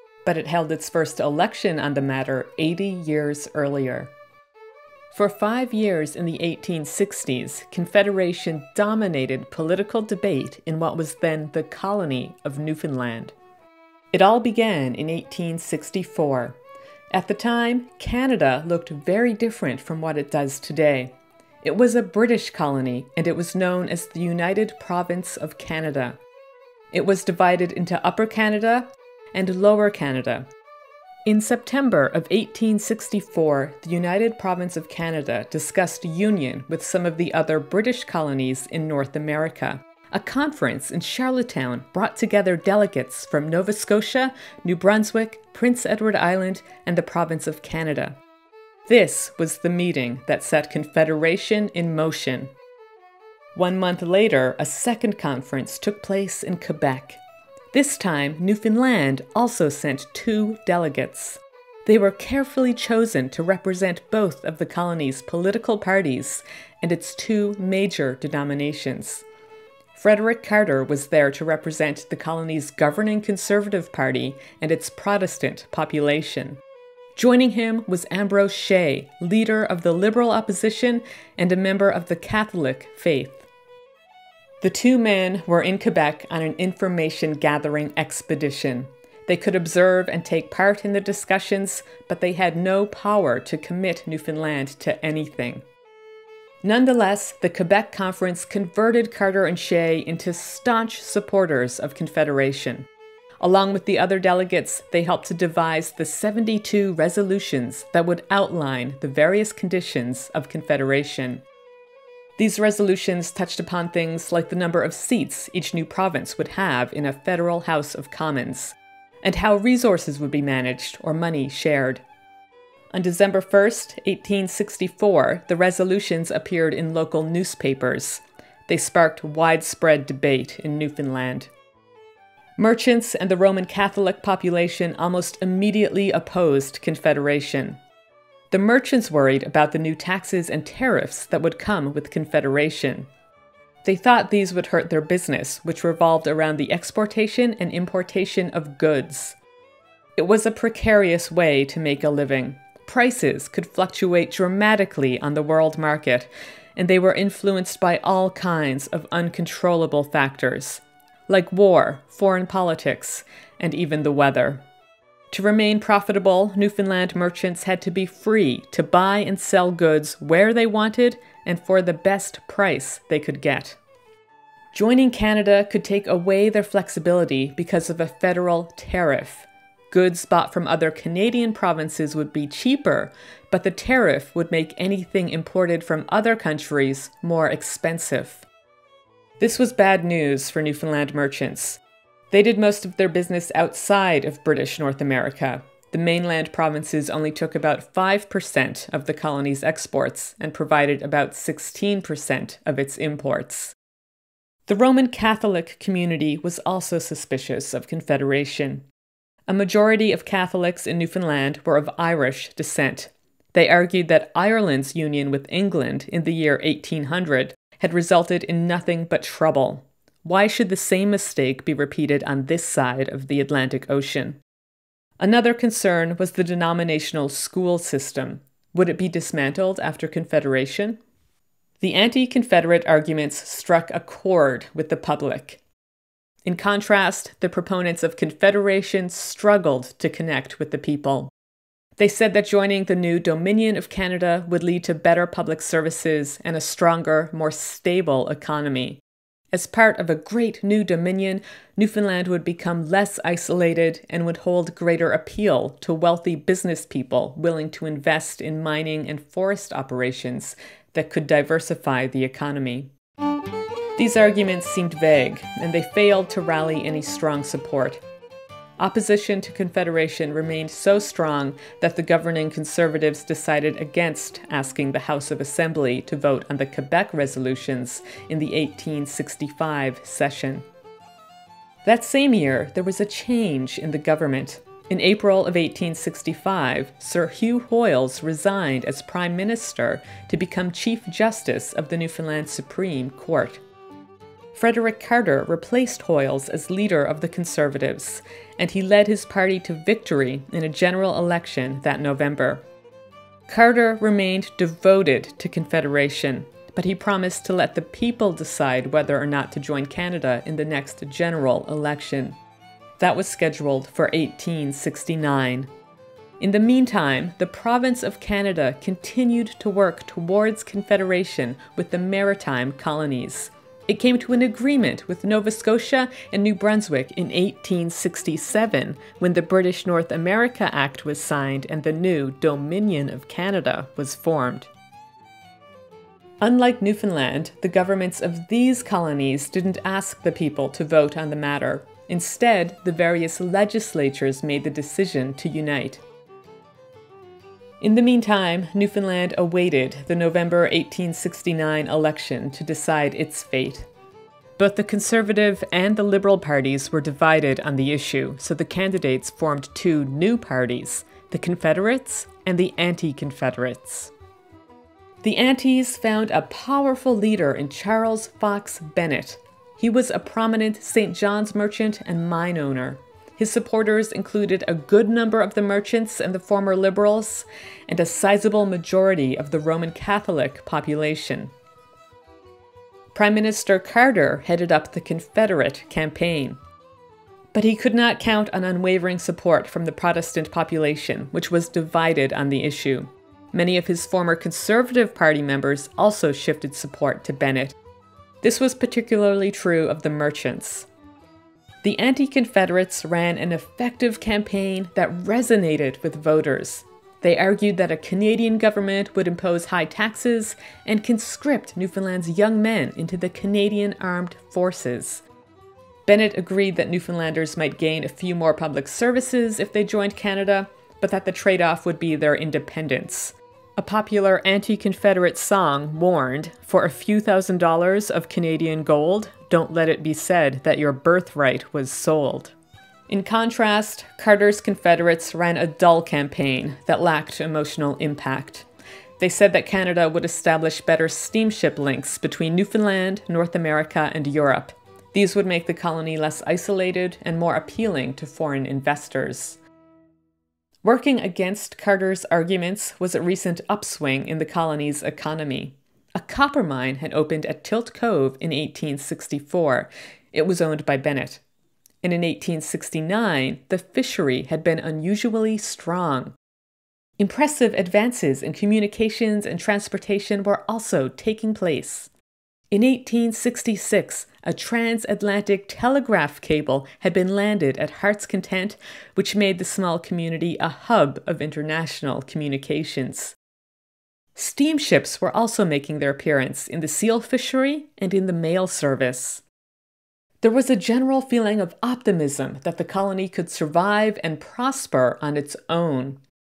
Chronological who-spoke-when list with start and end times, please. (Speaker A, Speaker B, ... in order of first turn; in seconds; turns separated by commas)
Speaker A: 0.2-4.1, Speaker A: 5.1-13.3, Speaker A: 14.1-16.6, Speaker A: 17.1-26.2, Speaker A: 26.9-30.5, Speaker A: 31.3-48.2, Speaker A: 48.9-52.5, Speaker A: 53.5-57.2, Speaker A: 57.7-69.2, Speaker A: 69.9-76.6, Speaker A: 77.2-83.5, Speaker A: 84.6-95.7, Speaker A: 96.6-102.9, Speaker A: 103.4-111.4, Speaker A: 112.4-122.0, Speaker A: 122.9-131.5, Speaker A: 132.6-137.8, Speaker A: 138.5-143.1, Speaker A: 143.8-149.4, Speaker A: 150.2-164.6, Speaker A: 165.3-173.8, Speaker A: 174.7-188.5, Speaker A: 189.4-203.8, Speaker A: 204.7-208.8, Speaker A: 209.5-224.4, Speaker A: 225.2-231.0, Speaker A: 231.8-235.6, Speaker A: 236.4-241.3, Speaker A: 242.0-262.9, Speaker A: 264.0-268.0, Speaker A: 268.8-280.7, Speaker A: 281.8-293.6, Speaker A: 294.5-302.6, Speaker A: 303.5-312.4, Speaker A: 313.0-315.7, Speaker A: 316.4-334.7, Speaker A: 336.4-346.0, Speaker A: 347.8-353.9, Speaker A: 354.6-364.1, Speaker A: 365.2-381.5, Speaker A: 383.1-386.6, Speaker A: 387.5-397.8, Speaker A: 398.4-400.9, Speaker A: 401.8-415.2, Speaker A: 416.1-432.5, Speaker A: 433.1-438.7, Speaker A: 439.2-449.6, Speaker A: 450.8-461.4, Speaker A: 462.0-466.4, Speaker A: 467.2-472.1, Speaker A: 472.7-483.4, Speaker A: 484.4-489.4, Speaker A: 490.4-496.2